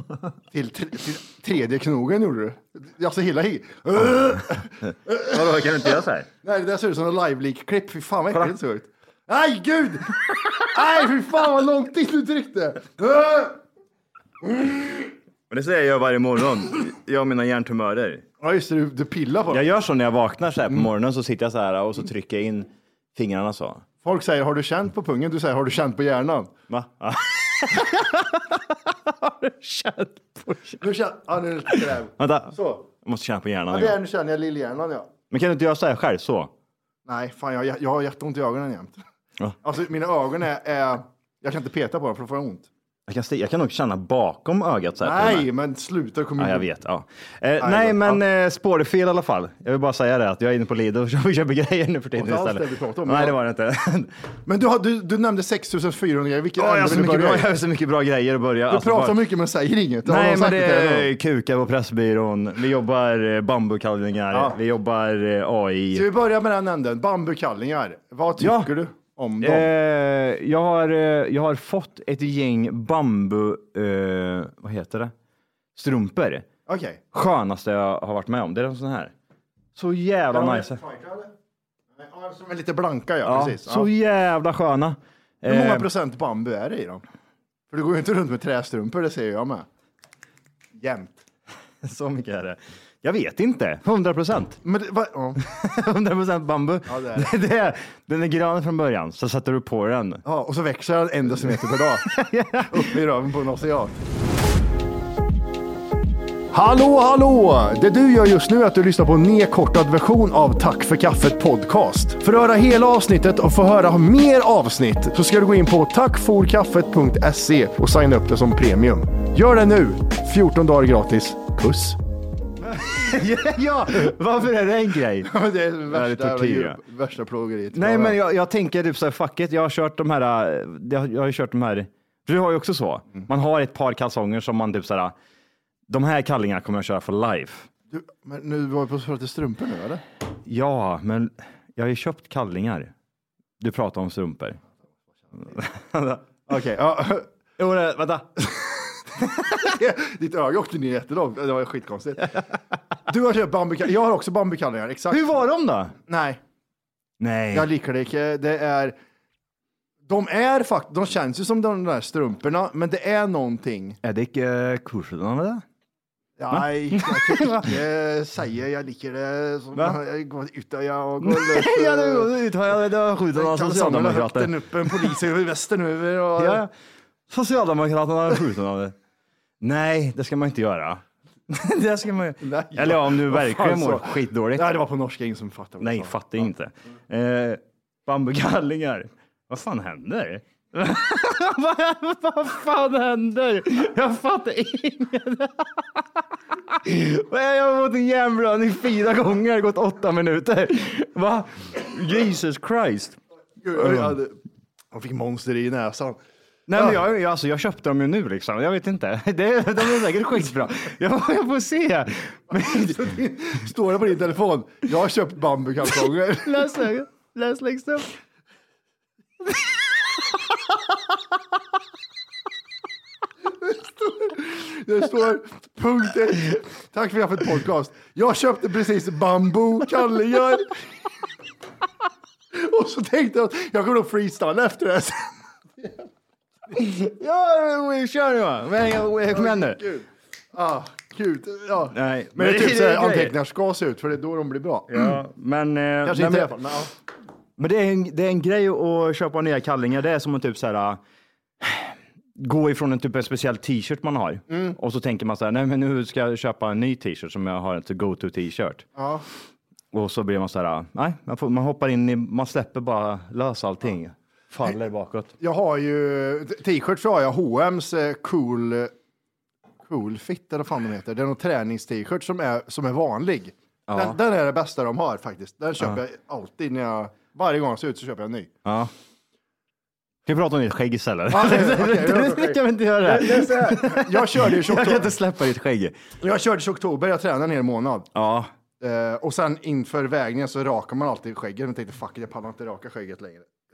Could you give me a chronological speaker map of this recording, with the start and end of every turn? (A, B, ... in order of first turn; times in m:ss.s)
0:00.5-0:13.6 A
0:05.1-0:06.3 B
0:08.3-0:08.6 B
0:14.4-0:15.0 A
0:15.5-0:18.2 B
0:18.4-0:19.6 A
0:19.5-0:23.8 B
0:24.0-0:26.5 A
0:26.7-0:30.8 B
0:30.8-0:32.8 A
0:31.8-0:34.0 B
0:33.7-0:35.1 A
0:35.3-0:36.5 B
0:37.1-0:39.0 A
0:39.6-0:42.7 A
0:43.1-0:45.5 B
0:45.0-0:46.7 A
0:46.4-0:54.1 B
0:47.6-0:48.2 A
0:52.2-0:53.4 A
0:54.4-0:57.5 A
0:56.6-0:59.2 B
0:58.7-1:01.1 A
1:00.0-1:06.1 B
1:05.9-1:09.7 A
1:08.4-1:08.7 B
1:09.4-1:15.1 B
1:15.8-1:16.4 B
1:16.6-1:17.0 A
1:17.1-1:19.1 B
1:19.8-1:20.8 B
1:20.3-1:21.3 A
1:22.0-1:23.9 A
1:23.2-1:25.9 B
1:25.4-1:27.0 A
1:27.7-1:29.6 A
1:30.8-1:31.2 A
1:31.8-1:34.6 B
1:34.6-1:35.4 A
1:35.4-1:40.2 B
1:36.9-1:37.3 A
1:40.2-1:42.1 A
1:41.5-1:42.9 B
1:42.6-1:44.0 A
1:46.5-2:02.0 A
2:02.7-2:05.3 B
2:05.2-2:08.2 A
2:05.9-2:06.8 B
2:07.7-2:15.1 B
2:15.9-2:17.7 B
2:17.9-2:20.0 A
2:20.4-2:22.9 B
2:23.6-2:24.6 B
2:25.4-2:26.4 B
2:26.5-2:27.2 A
2:27.6-2:29.4 B
2:29.5-2:32.4 A
2:33.1-2:35.3 A
2:35.1-2:35.9 B
2:36.1-2:36.4 A
2:37.2-2:37.7 B
2:37.5-2:38.9 A
2:40.1-2:44.0 A
2:44.0-2:45.6 B
2:46.4-2:52.3 A
2:46.5-2:47.8 B
2:51.2-2:55.2 B
2:53.3-2:56.6 A
2:56.4-2:56.7 B
2:57.3-2:58.9 B
2:59.6-3:04.7 B
3:02.4-3:06.4 A
3:05.8-3:23.2 B
3:23.6-3:24.4 A
3:23.7-3:24.2 B
3:24.9-3:26.2 A
3:26.7-3:33.1 B
3:32.6-3:36.7 A
3:36.3-3:38.2 B
3:43.6-3:50.7 A
3:52.5-3:56.1 A
3:56.7-3:59.8 B
3:59.3-4:05.2 A
4:01.9-4:03.4 B
4:04.9-4:06.6 B
4:06.0-4:06.9 A
4:07.6-4:11.0 B
4:11.6-4:18.8 B
4:14.5-4:14.8 A
4:19.0-4:19.2 A
4:19.9-4:25.3 B
4:25.4-4:28.9 A
4:29.8-4:38.5 A
4:33.9-4:34.2 B
4:38.6-4:38.9 B
4:40.2-4:45.9 B
4:41.3-4:45.1 A
4:46.2-4:48.1 A
4:48.1-4:48.5 B
4:48.8-4:53.5 A